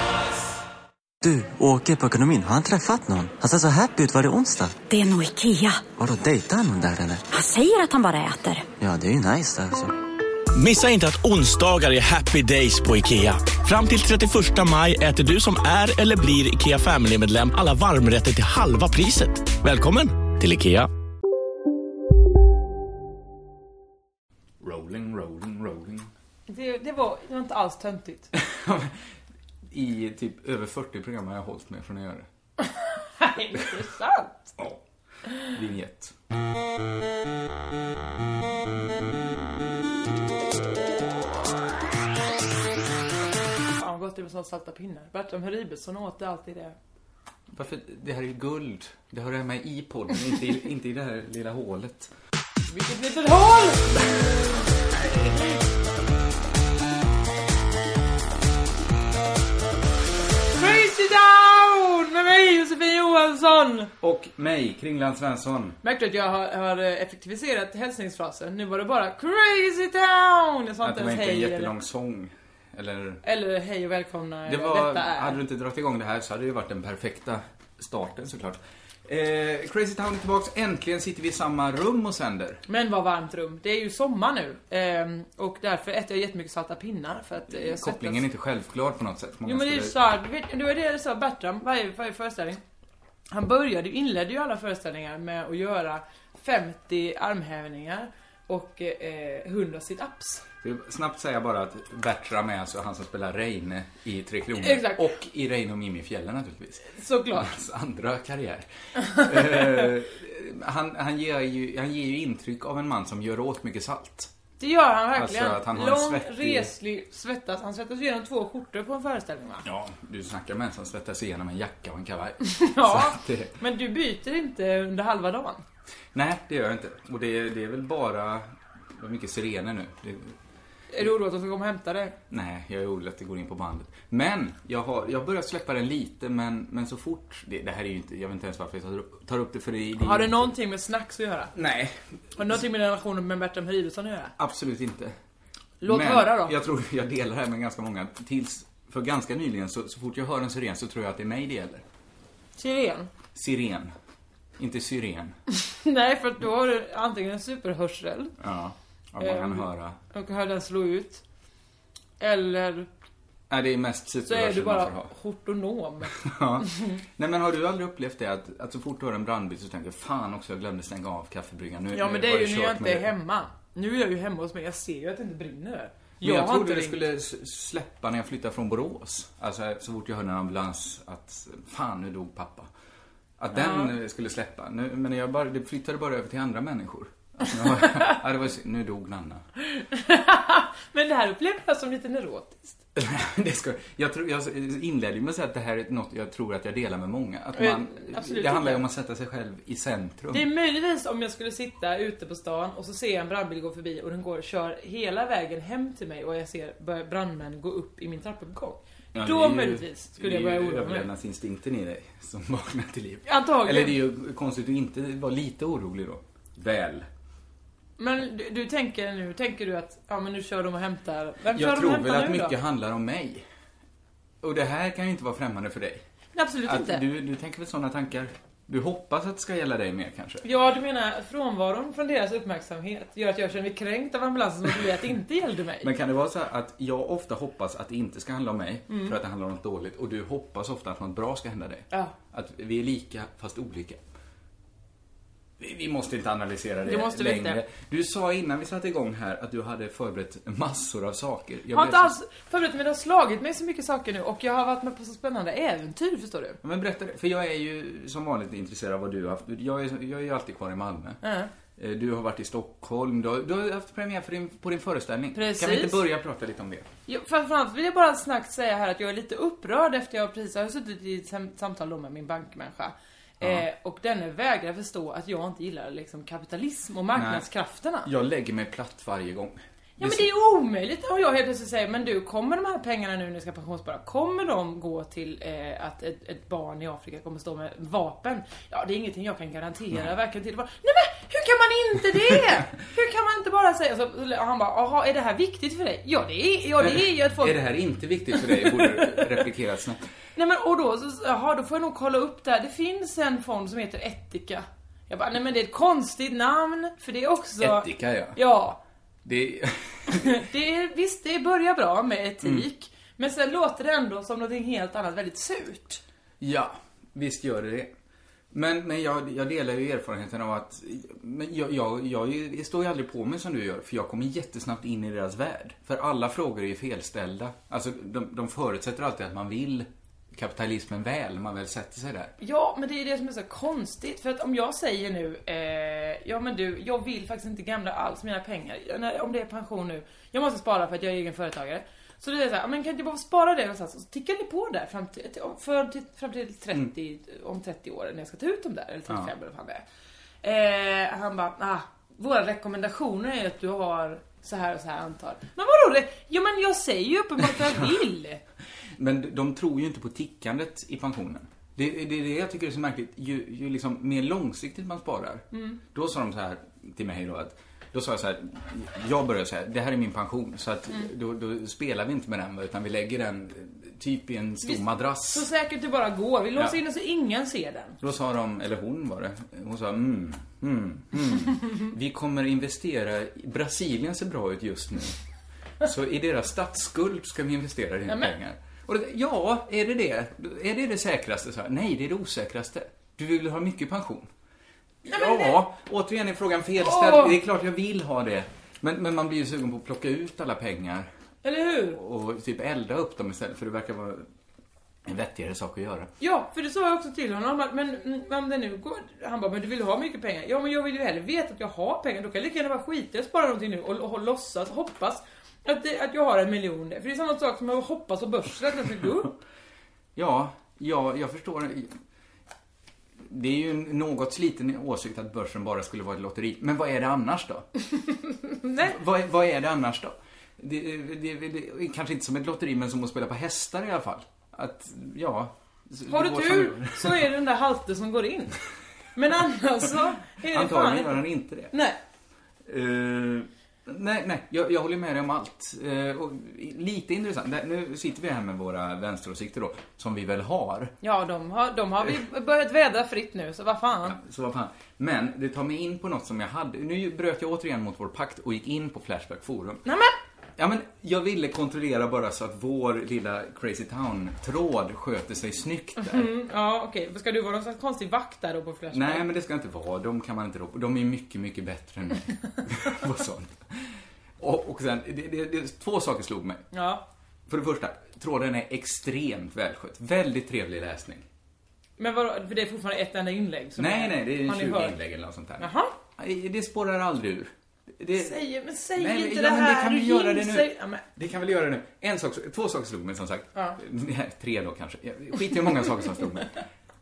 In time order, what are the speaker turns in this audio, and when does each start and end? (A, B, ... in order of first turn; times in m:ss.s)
0:01.2-0:04.8 A
0:04.9-0:05.8 B
0:05.9-0:07.3 A
0:07.3-0:08.6 B
0:08.8-0:09.9 A
0:10.5-0:20.8 C
0:24.6-0:26.1 D
0:26.5-0:28.3 E
0:28.3-0:29.0 D
0:29.7-0:32.2 D
0:33.2-0:34.5 E
0:35.5-0:36.1 D
0:43.8-0:46.8 E
0:47.5-0:52.1 D
0:52.7-0:54.0 E
1:00.6-1:03.9 E
1:04.0-1:05.8 D
1:05.8-1:11.7 E
1:10.8-1:13.2 D
1:13.2-1:15.4 E
1:14.4-1:22.6 D
1:22.7-1:28.2 E
1:27.5-1:30.0 D
1:29.4-1:32.6 E
1:33.3-1:40.4 E
1:40.6-1:54.3 D
1:44.6-1:45.1 E
1:46.8-1:47.5 E
1:54.6-1:59.6 E
1:55.1-1:56.7 D
1:59.6-2:03.5 D
2:02.4-2:05.6 E
2:06.1-2:10.3 D
2:10.9-2:12.1 E
2:12.3-2:20.5 D
2:20.0-2:21.5 E
2:21.5-2:22.6 D
2:22.4-2:24.3 E
2:24.4-2:25.1 D
2:25.8-2:26.5 E
2:25.8-2:31.8 D
2:32.6-2:33.1 E
2:33.3-2:33.9 D
2:34.6-2:35.3 D
2:35.5-2:38.3 E
2:38.4-2:40.0 D
2:39.2-2:41.2 E
2:42.2-2:42.9 E
2:43.5-2:45.1 D
2:44.2-2:47.0 E
2:46.1-2:53.1 D
2:51.9-2:57.0 E
2:56.2-3:02.7 D
3:03.4-3:09.4 D
3:03.5-3:03.9 E
3:09.6-3:12.8 E
3:12.9-3:20.5 D
3:17.5-3:18.8 E
3:20.3-3:31.1 E
3:29.1-3:37.1 D
3:33.2-3:34.0 E
3:38.0-3:42.6 E
3:41.5-3:43.4 D
3:44.4-3:46.0 D
3:46.3-3:47.0 E
3:46.6-3:50.4 D
3:50.4-3:55.9 E
3:55.8-4:04.0 D
3:58.9-3:59.1 E
4:05.6-4:12.1 D
4:06.8-4:07.6 E
4:11.7-4:16.6 E
4:16.6-4:21.2 D
4:21.2-4:21.5 E
4:21.8-4:26.8 D
4:25.3-4:26.0 E
4:27.1-4:38.1 E
4:37.1-4:37.5 D
4:38.0-4:40.2 D
4:40.0-4:57.7 E
4:56.8-5:00.0 D
4:58.3-4:59.4 E
5:00.4-5:08.8 E
5:07.6-5:08.4 D
5:09.2-5:10.4 D
5:10.1-5:16.0 E
5:16.4-5:17.9 D
5:18.5-5:32.3 D
5:32.4-5:49.8 E
5:50.4-5:58.4 E
5:57.6-5:57.9 D
5:59.0-6:15.5 D
6:05.5-6:05.8 E
6:14.6-6:18.0 E
6:18.0-6:25.2 D
6:25.8-6:34.3 D
6:28.1-6:28.3 E
6:35.0-6:41.1 D
6:35.1-6:35.5 E
6:36.8-6:37.4 E
6:41.4-6:42.0 E
6:41.9-6:44.2 D
6:45.0-6:46.1 D
6:46.2-6:59.3 E
7:00.2-7:02.0 D
7:03.2-7:07.6 D
7:08.1-7:09.0 E
7:08.8-7:17.3 D
7:16.1-7:18.6 E
7:19.1-7:22.0 E
7:20.3-7:21.7 D
7:22.6-7:30.9 D
7:31.0-7:34.2 E
7:34.0-7:39.8 D
7:39.8-7:40.1 E
7:40.6-7:46.3 D
7:46.0-7:49.2 E
7:48.9-7:56.6 D
7:56.7-7:57.0 E
7:57.5-8:01.2 D
8:02.0-8:05.0 E
8:03.8-8:08.4 D
8:05.6-8:05.9 E
8:08.1-8:11.0 E
8:09.0-8:16.6 D